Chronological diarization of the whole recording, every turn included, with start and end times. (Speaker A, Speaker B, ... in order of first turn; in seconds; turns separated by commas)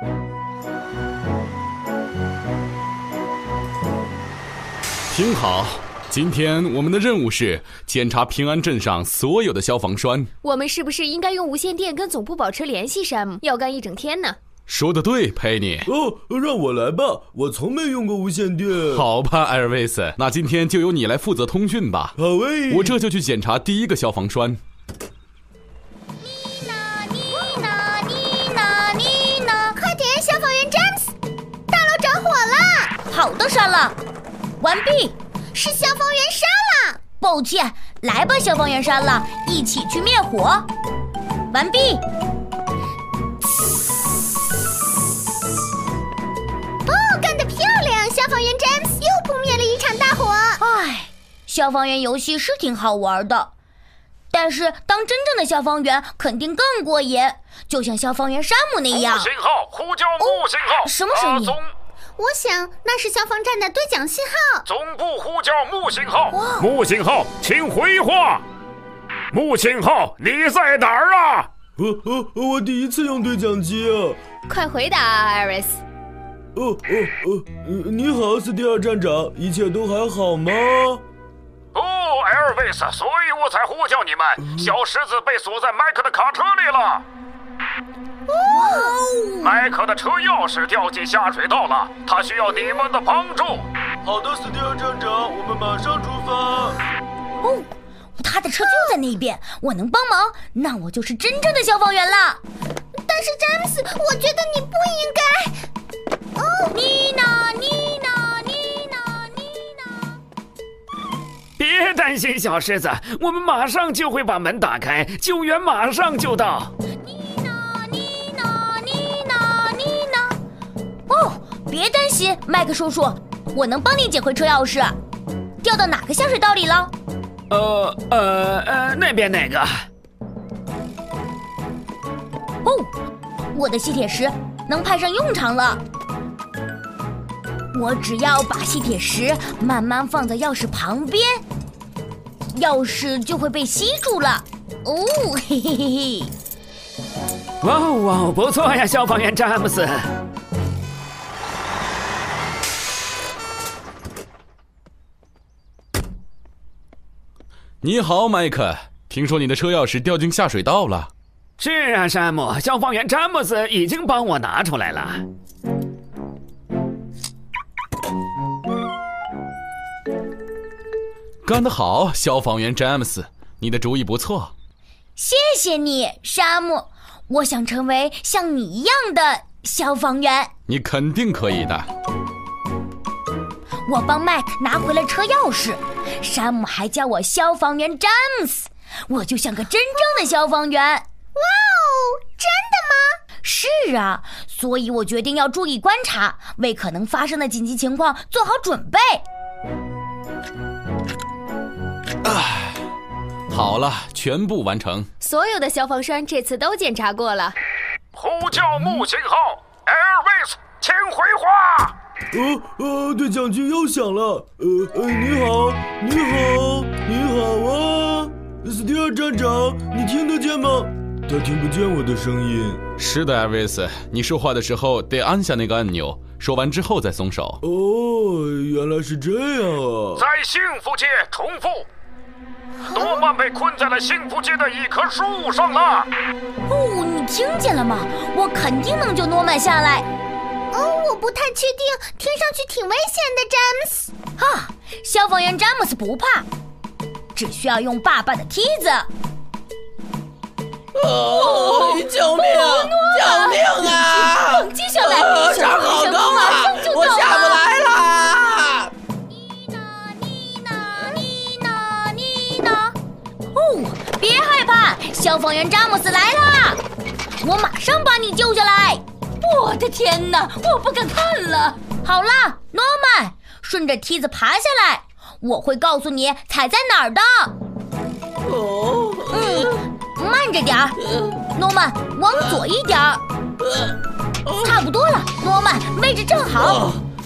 Speaker A: 5.1-10.3, Speaker B: 10.4-14.4, Speaker A: 14.7-15.9, Speaker C: 15.9-19.1, Speaker A: 18.9-22.1, Speaker C: 22.2-23.0, Speaker A: 22.7-24.6, Speaker D: 26.2-29.8, Speaker E: 29.8-31.1, Speaker E: 31.7-32.9, Speaker D: 33.1-34.0, Speaker D: 34.6-35.2, Speaker E: 35.5-37.0, Speaker D: 37.2-40.7, Speaker D: 41.5-42.0, Speaker E: 46.9-50.6, Speaker D: 50.6-53.5, Speaker D: 54.3-59.3, Speaker F: 59.0-61.7, Speaker D: 60.2-61.6, Speaker E: 62.2-64.7, Speaker F: 64.7-68.4, Speaker D: 66.3-66.7, Speaker F: 69.3-71.5, Speaker C: 71.8-74.2, Speaker B: 74.5-75.8, Speaker C: 76.5-81.0, Speaker F: 81.8-87.0, Speaker C: 84.4-84.7, Speaker E: 88.3-88.9, Speaker D: 88.4-89.6, Speaker F: 89.4-93.7, Speaker C: 94.0-96.8, Speaker D: 97.4-102.4, Speaker E: 103.0-105.6, Speaker E: 106.4-106.7, Speaker D: 106.7-110.2, Speaker F: 111.6-116.7, Speaker D: 117.0-120.4, Speaker D: 121.1-125.0, Speaker D: 125.6-126.9, Speaker F: 127.5-129.9, Speaker D: 132.6-132.9, Speaker D: 133.5-135.8, Speaker D: 137.7-141.4, Speaker D: 142.5-146.3, Speaker F: 147.6-150.1, Speaker A: 157.8-161.1, Speaker F: 161.6-165.2, Speaker A: 171.4-174.5, Speaker D: 175.2-180.5, Speaker A: 180.7-181.9, Speaker D: 183.9-191.1, Speaker E: 191.3-193.2, Speaker D: 193.4-199.2, Speaker A: 202.2-202.8, Speaker A: 203.5-205.1, Speaker B: 205.2-207.6, Speaker F: 208.2-211.9, Speaker C: 212.3-222.8, Speaker A: 223.0-227.6, Speaker C: 227.6-230.3, Speaker F: 230.2-231.9, Speaker D: 232.9-233.2, Speaker F: 232.9-236.1, Speaker D: 236.7-240.1, Speaker E: 240.7-244.1, Speaker D: 244.4-246.5, Speaker D: 247.3-249.1, Speaker G: 250.9-258.9, Speaker D: 251.2-257.6, Speaker D: 259.3-262.9, Speaker D: 263.5-266.8, Speaker D: 267.4-277.6, Speaker G: 278.4-279.7, Speaker D: 279.3-281.0, Speaker D: 281.5-283.2, Speaker D: 284.6-286.9, Speaker G: 286.6-287.0